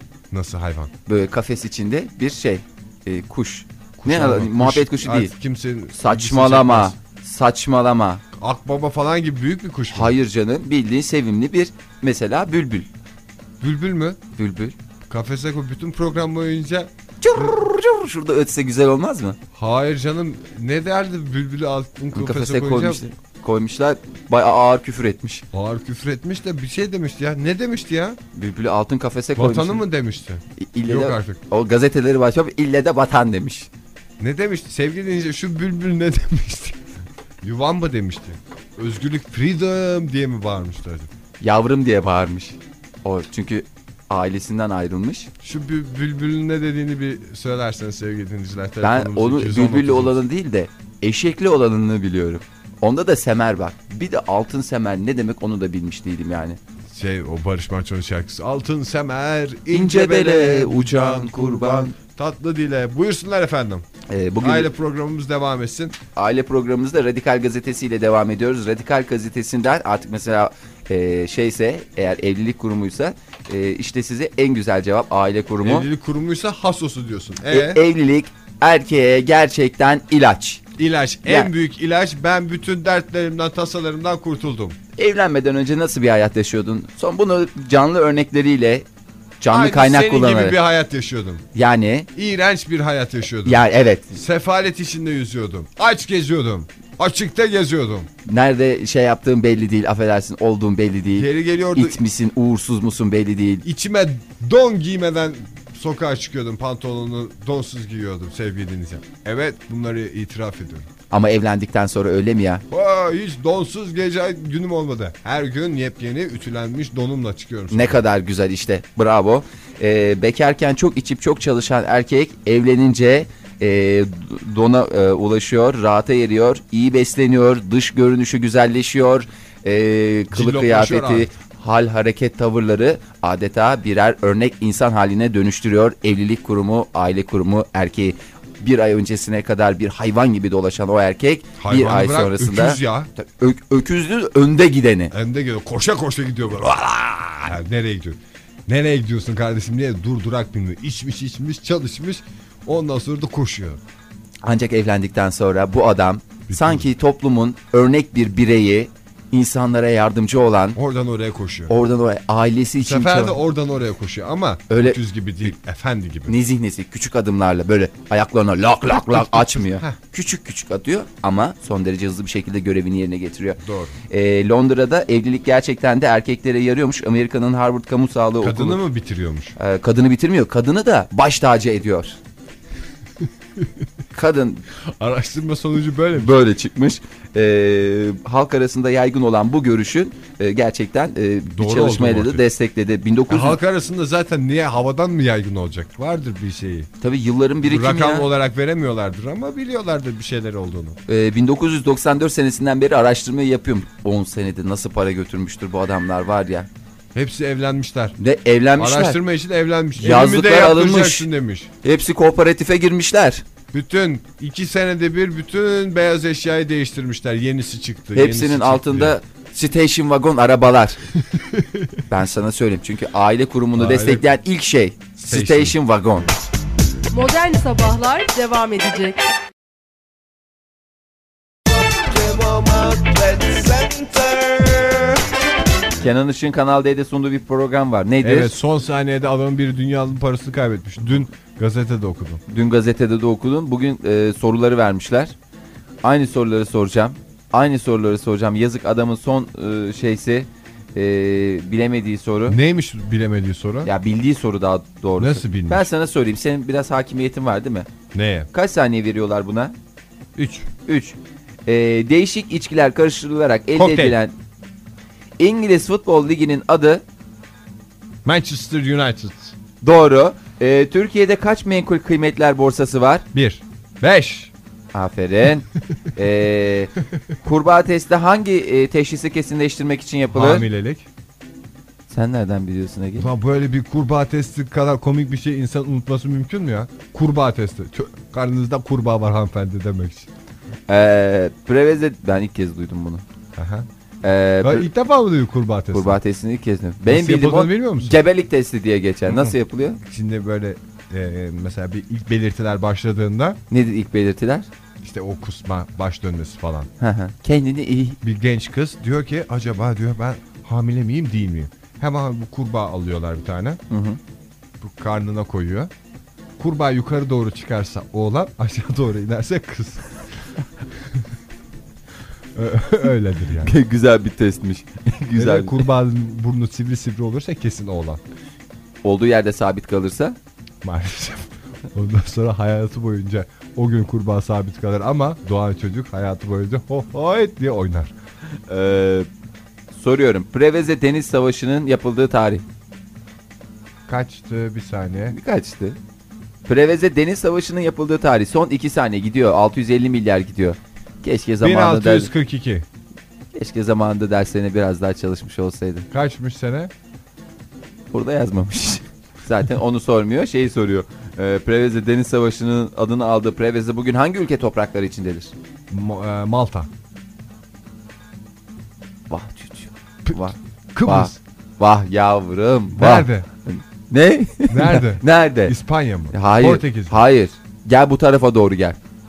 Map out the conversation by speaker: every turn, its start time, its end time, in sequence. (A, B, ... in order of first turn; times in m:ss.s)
0:00.3-0:00.9 A
0:01.1-0:05.3 B
0:04.0-0:07.0 A
0:05.9-0:08.2 B
0:08.4-0:10.1 A
0:09.9-0:12.9 B
0:13.6-0:14.2 A
0:14.4-0:14.8 B
0:15.1-0:17.5 A
0:17.2-0:19.4 B
0:19.5-0:23.0 A
0:22.1-0:25.4 B
0:25.5-0:28.2 A
0:28.3-0:29.8 B
0:29.4-0:31.4 A
0:30.6-0:33.7 B
0:34.2-0:36.8 A
0:37.4-0:41.1 A
0:41.4-0:45.3 B
0:45.4-0:50.2 A
0:48.8-0:56.6 B
0:56.9-1:03.9 A
0:59.7-1:02.0 B
1:04.1-1:04.7 B
1:04.4-1:06.0 A
1:06.2-1:15.9 B
1:15.6-1:17.8 A
1:17.5-1:20.6 B
1:20.8-1:24.8 A
1:21.2-1:21.5 B
1:25.0-1:28.9 B
1:29.4-1:30.6 B
1:29.5-1:31.4 A
1:31.5-1:32.1 B
1:32.1-1:38.1 A
1:33.5-1:34.2 B
1:38.2-1:43.6 B
1:41.2-1:42.0 A
1:43.6-1:50.9 A
1:51.1-1:52.6 B
1:52.7-1:58.0 A
1:57.7-2:25.1 B
2:10.3-2:11.3 A
2:21.6-2:23.1 A
2:25.1-2:33.8 A
2:34.4-2:40.8 B
2:36.5-2:36.9 A
2:40.8-2:41.7 A
2:41.7-2:43.4 B
2:42.8-2:46.4 A
2:44.7-2:45.5 B
2:46.3-2:58.8 B
2:48.9-2:50.0 A
2:53.6-2:54.0 A
2:58.4-2:59.6 A
2:59.6-3:02.2 B
3:04.1-3:04.7 B
3:05.0-3:06.4 A
3:06.2-3:13.6 B
3:11.5-3:12.5 A
3:13.3-3:16.9 A
3:17.0-3:18.3 B
3:17.6-3:21.0 A
3:21.1-3:26.7 B
3:27.1-3:28.2 A
3:28.2-3:29.2 B
3:28.8-3:31.7 A
3:30.0-3:31.3 B
3:31.8-3:33.4 B
3:33.7-3:39.2 A
3:38.1-3:41.0 B
3:41.2-3:42.0 A
3:42.1-3:46.3 B
3:43.8-3:44.3 A
3:45.2-3:45.8 A
3:47.1-3:49.2 C
3:56.0-3:58.5 B
3:58.2-4:02.4 A
4:02.5-4:05.4 B
4:06.0-4:12.6 B
4:12.5-4:13.9 A
4:13.8-4:17.9 B
4:15.2-4:15.9 A
4:18.1-4:18.5 A
4:18.5-4:19.8 B
4:20.3-4:20.7 A
4:20.8-4:24.3 B
4:23.7-4:24.2 A
4:25.4-4:27.0 B
4:28.2-4:29.5 A
4:29.8-4:33.2 B
4:33.3-4:34.5 A
4:34.9-4:40.7 B
4:40.3-4:41.1 A
4:42.1-4:43.3 B
4:43.2-4:50.3 A
4:50.9-4:53.2 B
4:53.6-4:53.9 A
4:54.2-4:54.9 B
4:54.6-4:56.2 A
4:55.9-5:00.0 B
4:57.0-4:58.2 A
4:59.3-5:03.6 A
5:03.7-5:04.7 B
5:05.0-5:06.9 A
5:07.0-5:08.2 B
5:08.2-5:13.8 A
5:13.9-5:14.2 B
5:14.8-5:15.9 A
5:16.6-5:20.2 A
5:22.5-5:23.7 A
5:23.6-5:25.9 B
5:25.3-5:28.2 A
5:29.0-5:30.4 B
5:30.8-5:38.1 A
5:38.7-5:39.3 B
5:39.9-5:42.6 B
5:44.1-5:45.4 A
5:45.3-5:46.0 B
5:46.7-5:52.3 B
5:51.6-5:52.8 A
5:53.5-5:56.1 B
5:56.1-5:56.9 A
5:58.1-6:05.5 B
6:05.9-6:06.9 A
6:09.3-6:15.8 B
6:10.2-6:11.4 A
6:12.9-6:13.5 A
6:14.7-6:17.2 A
6:16.3-6:19.0 B